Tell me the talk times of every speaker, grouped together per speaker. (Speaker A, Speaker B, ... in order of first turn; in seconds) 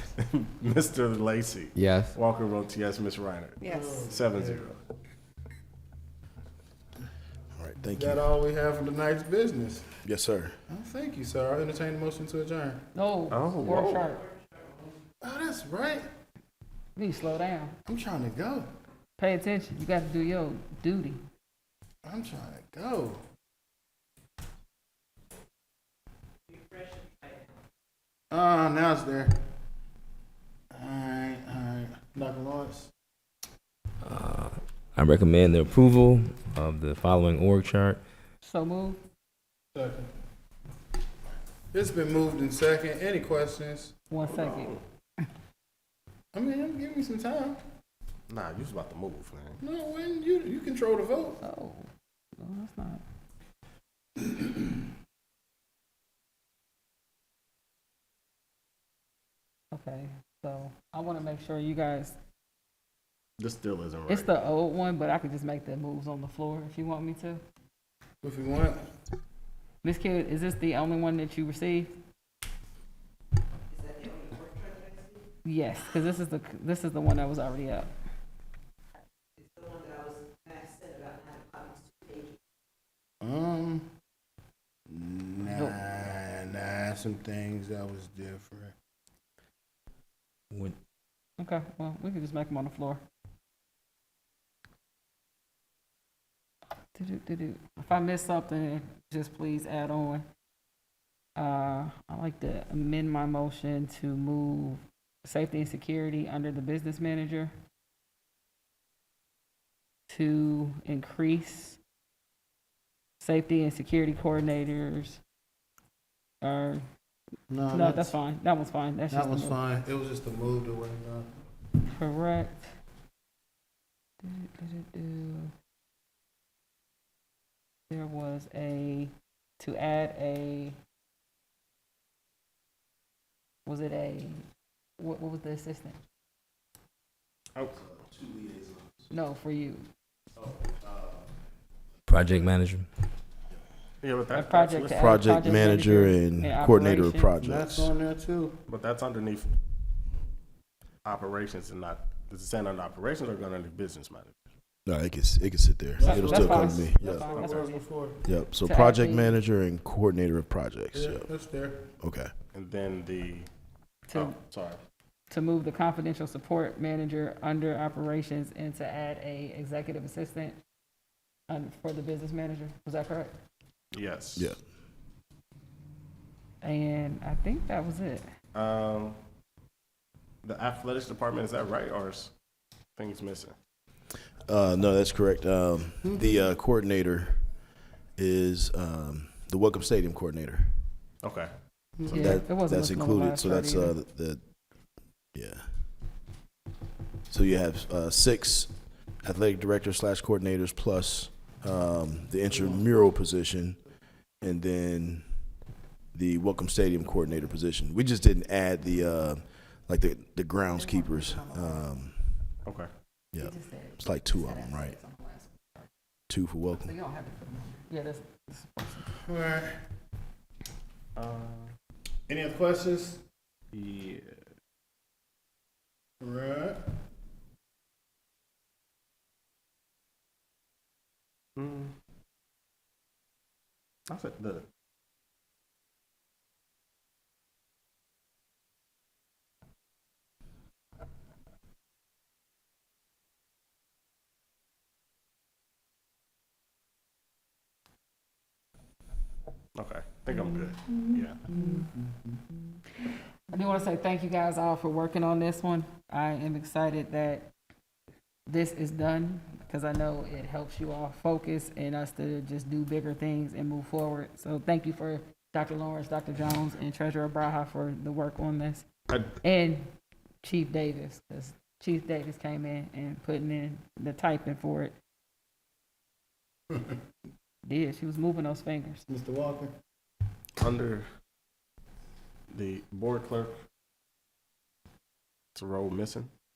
Speaker A: 0.3-4.8, 13.3-14.1, 44.2-44.8, 48.3-49.6, 63.4-64.3, 144.0-145.2, 148.7-149.5, 151.0-154.3, 157.2-157.6, 162.5-163.5, 164.1-164.8, 173.9-174.5, 178.5-179.2, 180.4-182.3, 182.9-183.5, 191.2-191.5, 192.0-192.4, 221.2-221.7, 223.7-224.4, 231.6-231.9, 234.1-234.7, 249.8-251.4, 280.6-281.1, 282.5-283.6, 285.5-286.3
Speaker B: 3.6-4.6, 7.9-9.9, 10.7-12.8, 15.2-16.1, 17.9-18.7, 22.0-23.2, 28.3-29.3, 30.7-32.9, 39.7-40.1, 41.7-43.9, 46.3-47.6, 49.6-51.4, 68.2-68.8, 83.2-83.8, 84.9-88.7, 117.5-118.2, 119.1-121.3, 147.4-148.6, 156.0-158.2, 160.9-161.9, 186.0-186.4, 192.0-192.2, 219.2-219.7, 222.3-223.2, 226.2-226.8, 251.8-252.1, 279.1-279.7
Speaker C: 3.6-3.9, 12.9-14.2, 16.9-17.8, 19.2-21.2, 38.4-39.0, 44.1-44.7, 51.4-53.0, 59.7-62.1, 64.1-67.4, 69.8-71.9, 75.4-77.9, 85.5-85.8, 91.4-93.0, 96.9-100.2, 101.3-107.5, 110.1-111.8, 113.2-115.2, 116.4-116.8, 117.7-119.6, 121.8-122.7, 124.2-125.5, 127.9-130.8, 133.7-134.4, 135.0-136.0, 139.1-139.9, 144.3-147.3, 156.0-157.9, 158.6-159.4, 164.1-164.4, 165.3-170.6, 171.5-173.3, 176.6-178.2, 192.1-194.0, 210.7-211.9, 213.4-215.9, 216.7-219.2, 253.5-257.5, 258.5-268.9, 269.4-269.8, 270.4-274.9, 277.6-279.0
Speaker D: 7.5-8.2, 10.0-10.6, 137.8-139.1, 140.8-141.2, 144.9-147.9, 154.8-157.2, 158.2-161.3, 162.0-162.3, 174.3-174.6, 184.4-187.5, 188.2-190.8, 192.2-194.5, 195.3-195.7, 197.3-203.8, 204.4-205.3, 206.1-212.2, 213.3-215.0, 216.3-216.9
Speaker E: 34.0-38.0, 142.1-142.9